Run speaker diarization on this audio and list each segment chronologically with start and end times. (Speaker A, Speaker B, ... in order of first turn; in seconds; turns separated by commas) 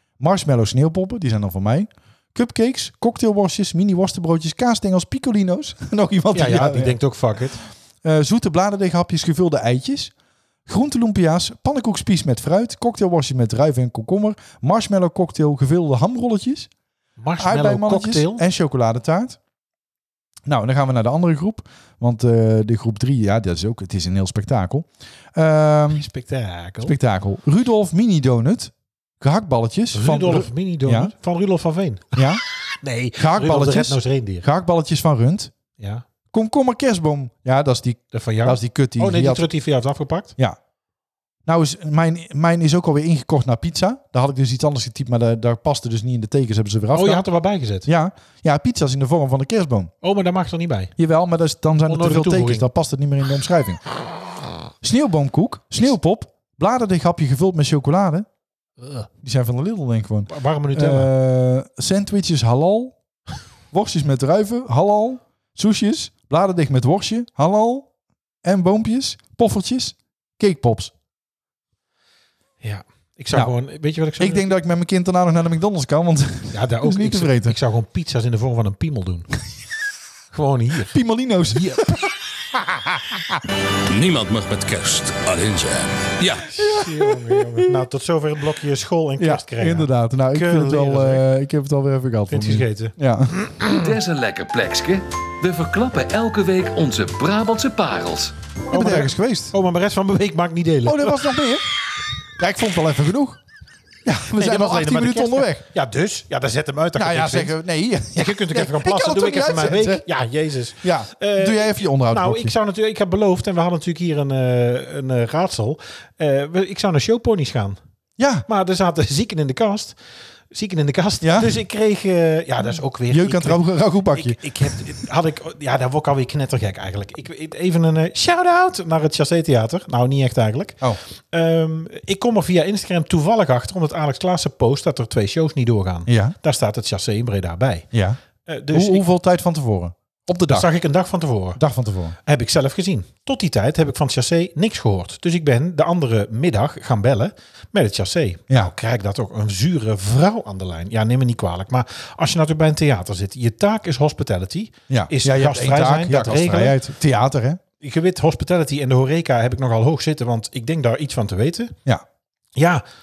Speaker A: 0.2-7.0, Speaker B: 6.3-7.6, Speaker A: 8.0-10.1, Speaker A: 10.7-16.7, Speaker B: 17.2-18.4, Speaker A: 17.4-19.4, Speaker A: 20.4-26.0, Speaker B: 25.9-26.9, Speaker A: 26.8-31.1, Speaker B: 29.9-32.2, Speaker A: 32.1-32.4, Speaker B: 32.8-34.5, Speaker A: 33.2-35.5, Speaker B: 35.8-36.0, Speaker A: 36.3-39.5, Speaker B: 38.1-40.3, Speaker A: 41.5-47.2, Speaker B: 46.9-47.9, Speaker A: 47.8-49.9, Speaker B: 50.0-50.9, Speaker A: 51.0-53.8, Speaker B: 51.8-52.6, Speaker A: 54.8-58.2, Speaker B: 58.8-59.1, Speaker A: 59.2-62.9, Speaker B: 60.3-61.1, Speaker A: 63.7-67.9, Speaker A: 68.4-70.9, Speaker B: 72.6-74.5, Speaker A: 74.2-77.5, Speaker B: 76.5-79.3, Speaker B: 80.3-81.0, Speaker A: 80.9-82.0, Speaker B: 81.5-81.8, Speaker C: 83.9-86.5, Speaker B: 86.5-91.2, Speaker A: 86.6-87.8, Speaker A: 89.2-93.4, Speaker B: 92.3-93.9, Speaker D: 93.6-98.3, Speaker B: 98.7-101.4, Speaker A: 98.7-99.5, Speaker A: 100.8-101.7, Speaker A: 102.4-103.4, Speaker A: 104.0-105.6, Speaker B: 104.3-107.6, Speaker A: 106.9-110.0, Speaker B: 108.1-117.8, Speaker A: 110.8-112.5, Speaker A: 118.2-118.5, Speaker B: 118.5-120.0, Speaker B: 120.5-137.9, Speaker A: 121.2-121.6, Speaker A: 123.1-124.4, Speaker A: 136.1-136.3, Speaker A: 137.9-138.2, Speaker B: 138.4-139.1, Speaker A: 138.7-140.7, Speaker B: 140.5-141.6, Speaker A: 141.6-142.2, Speaker B: 142.2-156.8, Speaker A: 154.9-157.6, Speaker B: 157.8-161.7, Speaker B: 162.6-162.8